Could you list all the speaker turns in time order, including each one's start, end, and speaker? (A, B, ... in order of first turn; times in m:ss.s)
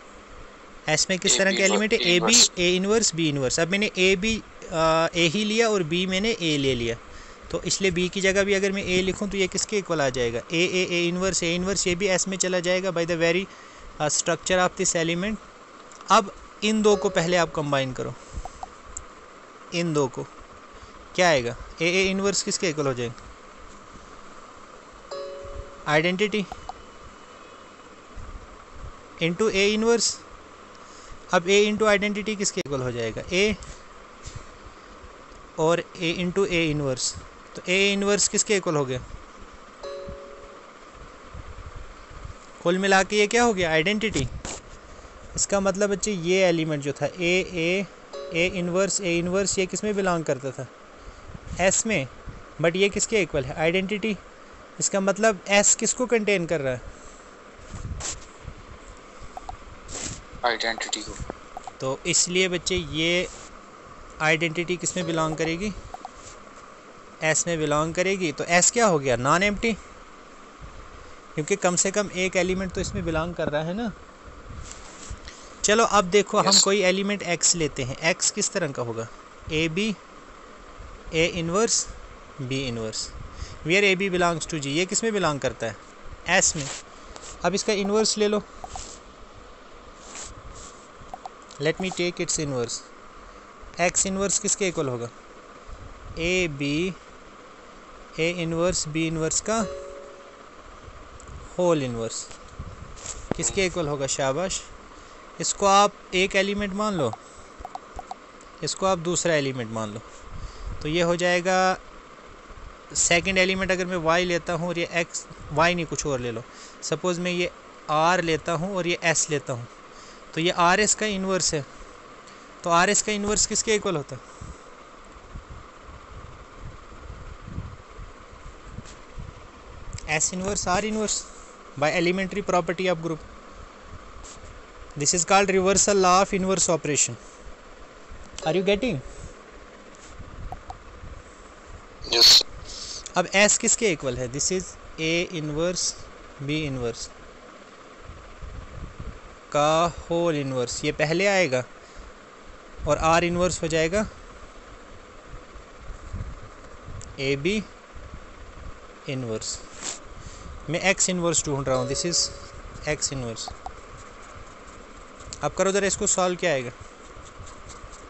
0:00.9-0:13.5 A
0:01.3-0:02.5 B
0:14.0-0:15.4 A
0:16.1-0:18.2 A
0:19.7-0:20.3 A
0:21.1-0:23.2 A
0:25.9-0:26.5 A
0:29.2-0:30.2 A
0:31.3-0:33.6 A
0:35.6-0:39.0 A
0:42.6-0:44.3 A
0:45.3-0:50.7 A
0:51.6-0:54.2 A
0:54.8-0:56.8 A
1:00.4-1:01.2 B
1:01.8-1:03.3 A
1:04.2-1:05.8 A
1:07.2-1:09.8 A
1:11.4-1:14.0 A
1:15.6-1:20.0 A
1:16.4-1:16.7 B
1:21.1-1:23.1 A
1:23.6-1:26.7 A
1:27.4-1:28.4 A
1:31.6-1:32.9 A
1:33.8-1:35.1 A
1:36.2-1:37.0 A
1:38.2-1:39.7 A
1:41.5-1:42.3 A
1:43.3-1:44.7 A
1:45.4-1:47.2 A
1:48.6-1:50.0 A
1:50.8-1:51.8 A
1:52.9-1:59.7 A
2:00.3-2:01.7 A
2:02.6-2:04.2 A
2:10.1-2:13.2 A
2:15.0-2:17.2 A
2:18.4-2:19.0 A
2:23.2-2:27.1 A
2:29.5-2:31.7 A
2:32.8-2:34.1 A
2:37.2-2:37.7 A
2:39.1-2:39.6 A
2:40.7-2:43.5 A
2:45.4-2:46.7 A